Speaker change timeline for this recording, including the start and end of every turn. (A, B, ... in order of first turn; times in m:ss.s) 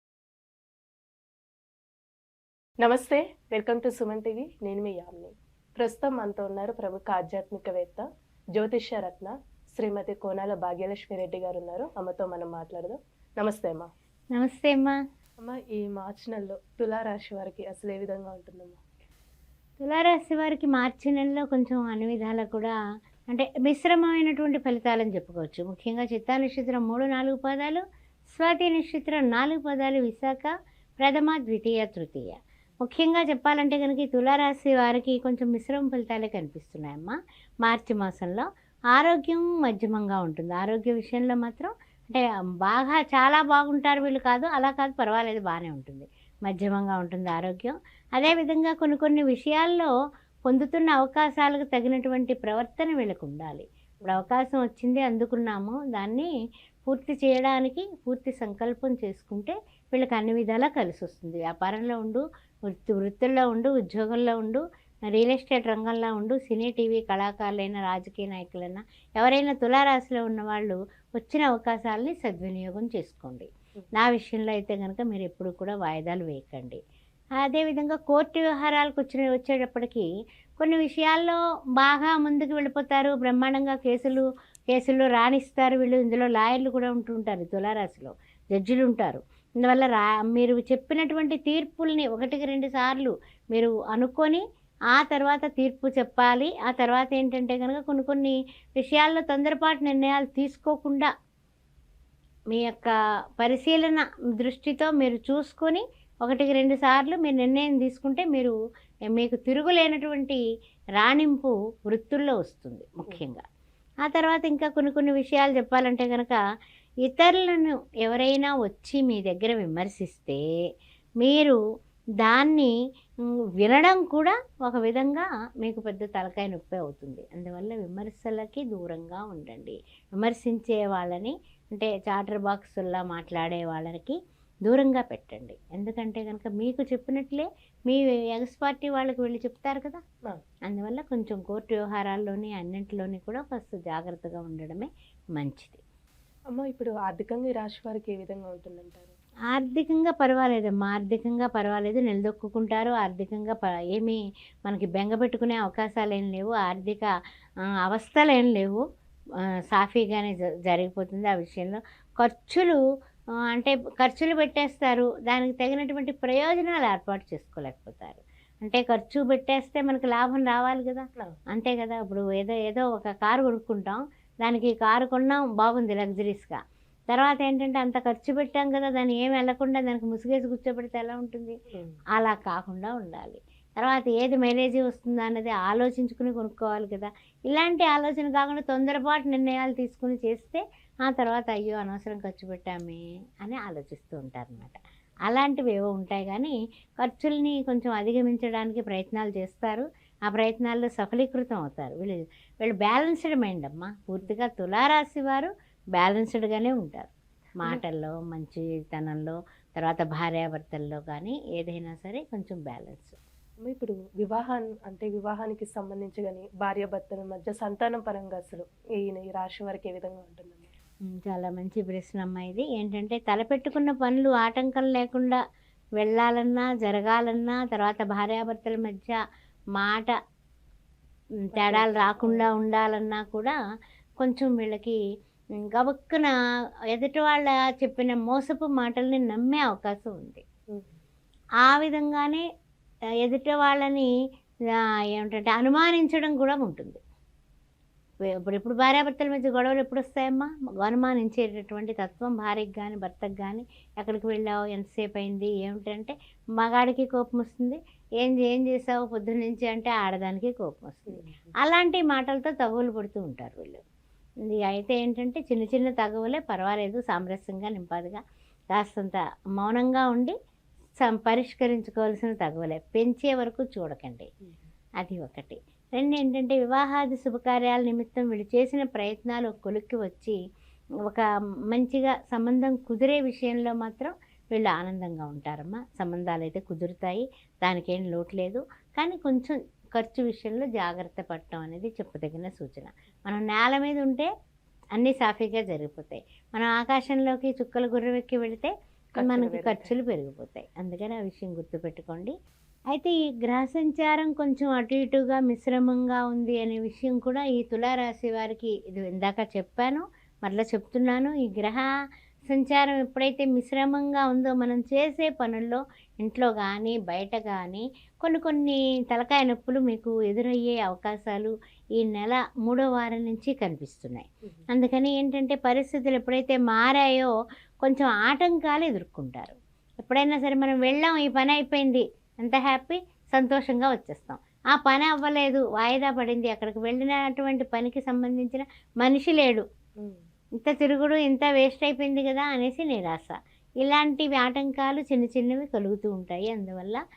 0:02.8-0:13.9 A
0:14.3-0:15.0 B
0:15.4-0:18.8 A
0:19.8-0:22.7 B
0:23.3-0:49.9 B
0:50.5-0:56.3 B
0:54.0-0:54.3 A
0:56.8-1:16.8 B
1:17.4-1:41.1 B
1:42.5-1:48.5 B
1:49.1-1:50.4 B
1:51.0-1:53.4 B
1:54.0-1:56.4 B
1:57.0-2:00.4 B
2:01.2-2:01.6 B
2:02.2-2:02.7 B
2:03.6-2:20.0 B
2:20.7-2:25.8 B
2:26.5-2:29.1 A
2:29.5-2:37.1 B
2:37.8-2:38.8 B
2:39.7-2:42.8 B
2:43.5-2:56.6 B
2:57.1-3:01.5 B
3:02.1-3:33.2 B
3:33.6-3:40.7 A
3:41.2-3:45.4 B
3:46.0-3:49.2 B
3:49.8-3:50.1 B
3:51.5-3:52.5 A
3:51.5-3:53.5 B
3:54.2-3:55.0 B
3:55.7-3:56.3 B
3:56.9-4:00.4 B
4:00.7-4:01.0 A
4:01.6-4:02.4 B
4:03.2-4:04.1 B
4:05.1-4:07.0 B
4:08.4-4:23.8 B
4:21.1-4:21.4 A
4:24.5-4:28.2 B
4:28.7-4:30.3 B
4:31.0-4:34.3 B
4:35.0-4:40.4 B
4:41.0-4:54.3 B
4:55.0-5:02.3 B
4:59.1-4:59.9 A
5:02.9-5:11.9 B
5:12.5-5:27.3 B
5:27.8-5:39.6 B
5:40.6-5:47.0 B